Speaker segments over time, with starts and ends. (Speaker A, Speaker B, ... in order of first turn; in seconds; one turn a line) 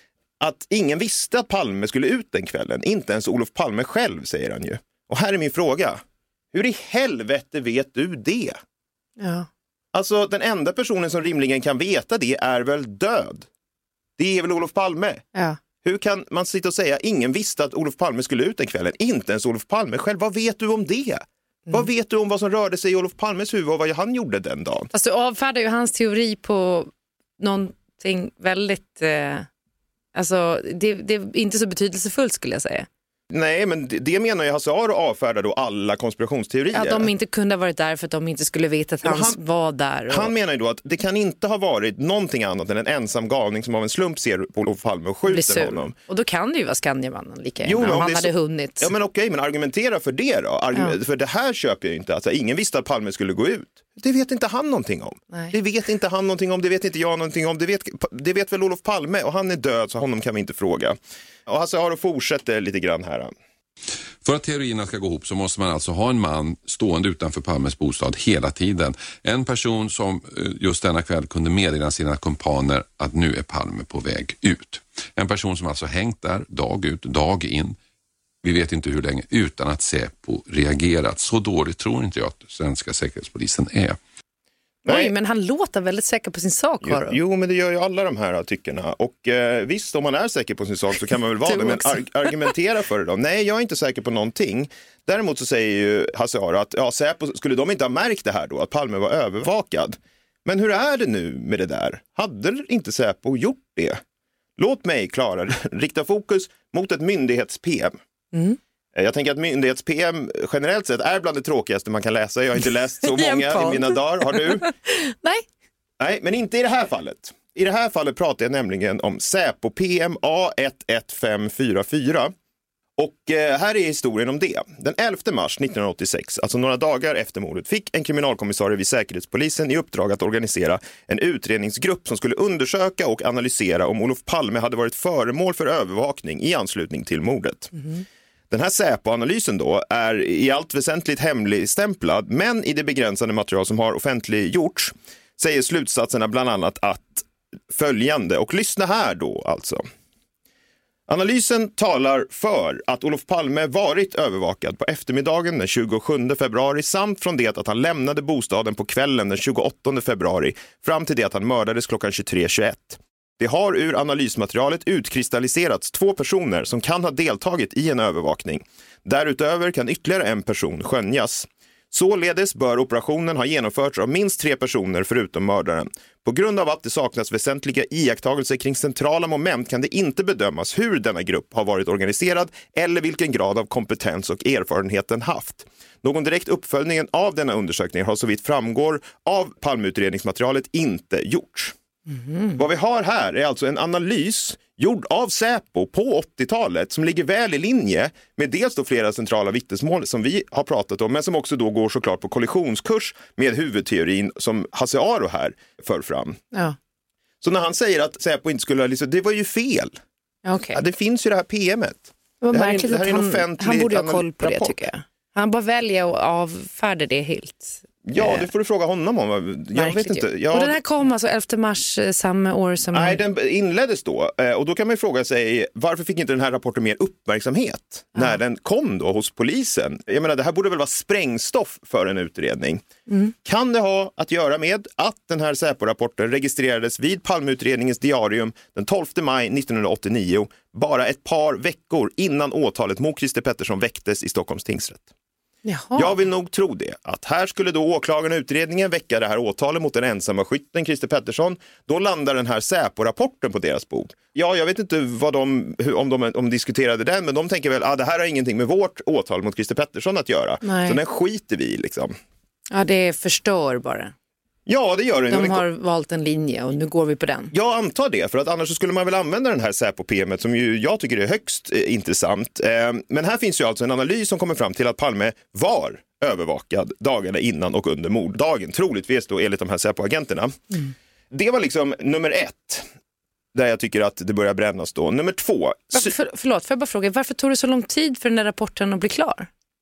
Speaker A: 0.4-6.0
Speaker A: 6.5-8.6
Speaker B: 9.2-9.5
Speaker A: 9.9-13.5
Speaker A: 14.2-15.2
Speaker B: 15.3-15.6
Speaker A: 15.8-24.9
Speaker B: 24.9-29.5
Speaker B: 30.1-32.9
Speaker A: 33.3-37.1
Speaker B: 36.7-40.3
Speaker A: 39.0-39.4
Speaker A: 40.1-46.0
Speaker B: 45.3-48.9
Speaker A: 47.6-63.3
Speaker C: 64.2-77.8
Speaker C: 78.4-84.0
Speaker A: 84.8-85.1
Speaker B: 84.9-87.2
Speaker A: 86.8-104.0
Speaker B: 91.5-92.0
Speaker A: 104.6-108.0
Speaker B: 108.3-108.6
Speaker A: 109.0-114.7
Speaker B: 113.0-115.5
Speaker A: 116.0-122.3
Speaker A: 123.0-137.9
Speaker A: 138.5-149.8
Speaker A: 151.1-191.8
Speaker B: 192.1-192.6
Speaker A: 192.6-206.4
Speaker A: 207.4-210.0
Speaker B: 210.4-210.8
Speaker A: 210.7-214.8
Speaker B: 212.4-218.5
Speaker A: 218.1-220.8
Speaker B: 219.8-223.2
Speaker A: 222.9-232.8
Speaker A: 233.4-245.1
Speaker B: 245.7-246.2
Speaker A: 245.9-262.2
Speaker B: 260.6-261.0
Speaker B: 262.7-264.1
Speaker A: 264.7-265.6
Speaker B: 265.3-267.5
Speaker A: 267.5-280.6
Speaker A: 281.3-282.9
Speaker A: 283.5-286.1
Speaker B: 285.9-289.5